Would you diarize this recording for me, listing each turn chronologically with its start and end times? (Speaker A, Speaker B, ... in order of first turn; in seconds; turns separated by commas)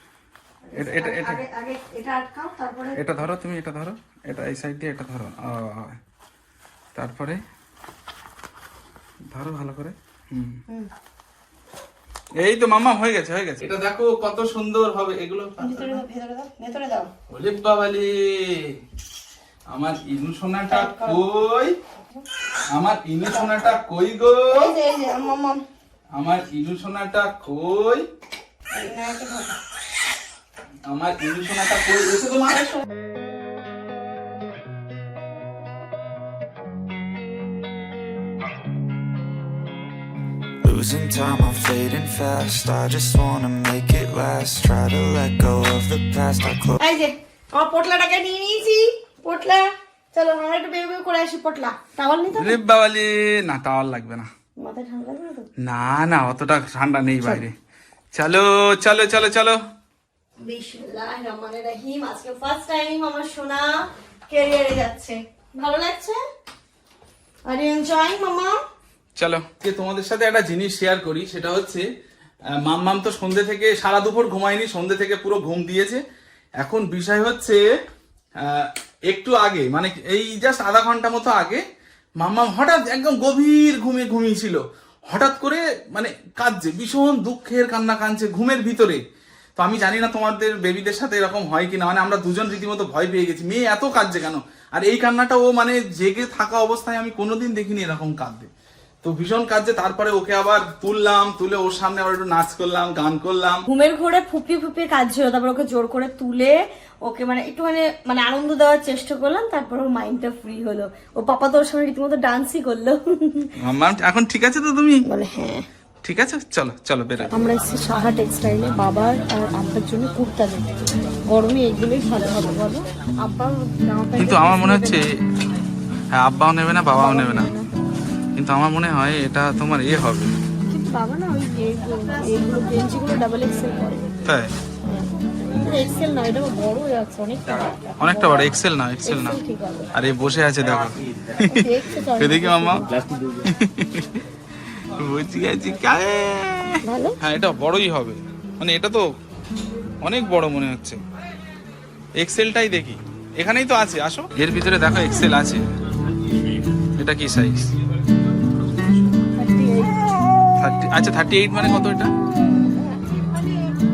Speaker A: 0.6-3.2, Speaker B: 0.8-1.4, Speaker B: 3.0-6.0, Speaker B: 7.0-7.4, Speaker B: 9.3-10.6, Speaker B: 12.4-16.0, Speaker A: 15.6-17.1, Speaker B: 17.3-18.8, Speaker B: 19.7-21.8, Speaker A: 20.7-21.2, Speaker B: 22.7-24.7, Speaker A: 23.3-23.7, Speaker A: 24.5-25.6, Speaker B: 26.1-28.1, Speaker A: 28.7-29.6, Speaker B: 30.9-32.7, Speaker C: 40.6-46.8, Speaker A: 46.8-52.6, Speaker B: 52.4-54.3, Speaker A: 54.6-55.5, Speaker B: 55.6-57.5, Speaker B: 58.1-59.6, Speaker A: 60.4-66.2, Speaker A: 67.5-68.6, Speaker B: 69.2-71.8, Speaker B: 72.6-76.0, Speaker B: 76.6-77.6, Speaker B: 78.4-81.6, Speaker B: 82.2-89.0, Speaker B: 89.6-98.5, Speaker B: 99.0-103.6, Speaker A: 103.7-113.5, Speaker B: 113.6-115.0, Speaker A: 115.0-115.7, Speaker B: 116.0-117.3, Speaker A: 117.3-125.0, Speaker B: 124.2-125.1, Speaker B: 126.1-127.5, Speaker A: 126.9-127.7, Speaker B: 128.4-130.3, Speaker A: 130.7-134.1, Speaker B: 134.3-134.6, Speaker A: 134.9-138.5, Speaker B: 138.0-139.4, Speaker A: 139.1-139.9, Speaker B: 139.9-144.2, Speaker A: 141.5-142.9, Speaker B: 145.0-149.1, Speaker A: 146.8-147.2, Speaker B: 150.0-151.0, Speaker B: 152.2-155.7, Speaker B: 157.0-157.7, Speaker A: 159.4-159.9, Speaker B: 160.6-162.1, Speaker A: 162.7-163.5